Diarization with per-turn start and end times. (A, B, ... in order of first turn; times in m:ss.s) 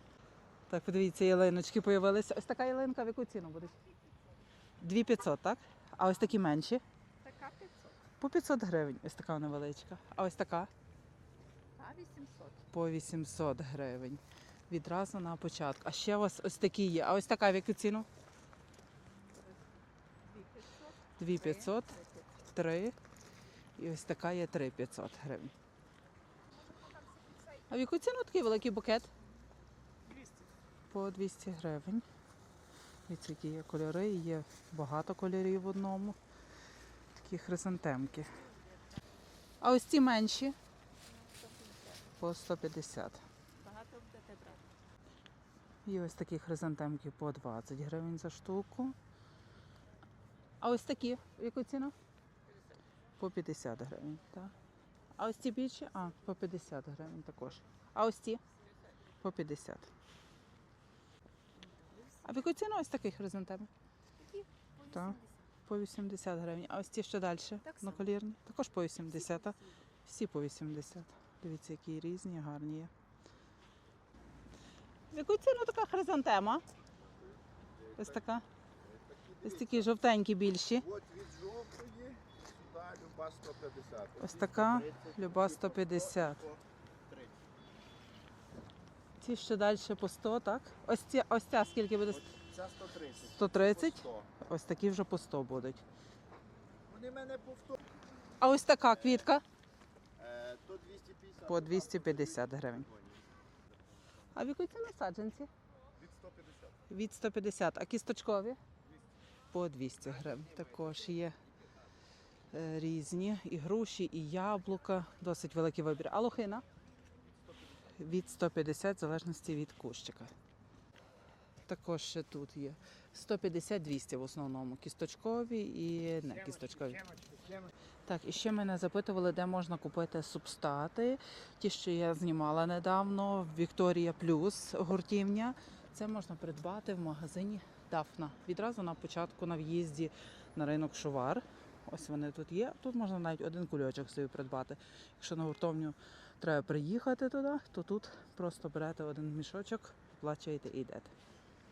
0:00.7-0:03.8 A
0:04.8-0:06.8 A
0:07.2-0:08.0 B
0:08.2-0:10.7 A
0:11.8-0:12.6 B
0:12.7-0:18.1 A
0:20.2-0:22.3 B
0:21.2-0:23.0 A
0:23.8-0:25.5 A
0:26.9-0:27.6 B
0:27.7-0:29.1 A
0:30.9-0:32.0 A
0:33.1-0:36.2 A
0:37.2-0:38.5 A
0:39.6-0:40.6 A
0:41.0-0:42.1 B
0:42.2-0:43.2 A
0:43.6-0:44.7 B
0:45.8-0:49.0 A
0:50.6-0:51.9 A
0:53.2-0:54.5 A
0:55.2-0:58.4 A
0:59.2-0:59.9 A
1:01.6-1:02.3 B
1:02.2-1:03.7 A
1:04.1-1:05.5 B
1:04.9-1:12.9 A
1:07.6-1:08.0 B
1:09.0-1:09.8 B
1:15.1-1:16.6 A
1:17.0-1:18.2 C
1:18.0-1:18.4 A
1:18.8-1:19.9 C
1:19.4-1:20.9 A
1:20.8-1:26.6 C
1:24.2-1:26.5 A
1:29.2-1:32.3 A
1:32.3-1:34.3 C
1:33.1-1:35.8 A
1:36.9-1:37.8 C
1:38.4-1:39.4 A
1:40.2-1:43.2 C
1:41.4-1:42.9 A
1:44.3-1:45.5 A
1:46.0-1:46.6 C
1:46.9-1:48.6 A
1:49.5-1:51.4 A
1:52.5-1:56.6 A
1:58.0-2:00.3 A
2:01.7-2:07.2 A
2:07.2-2:07.7 C
2:08.1-2:31.1 A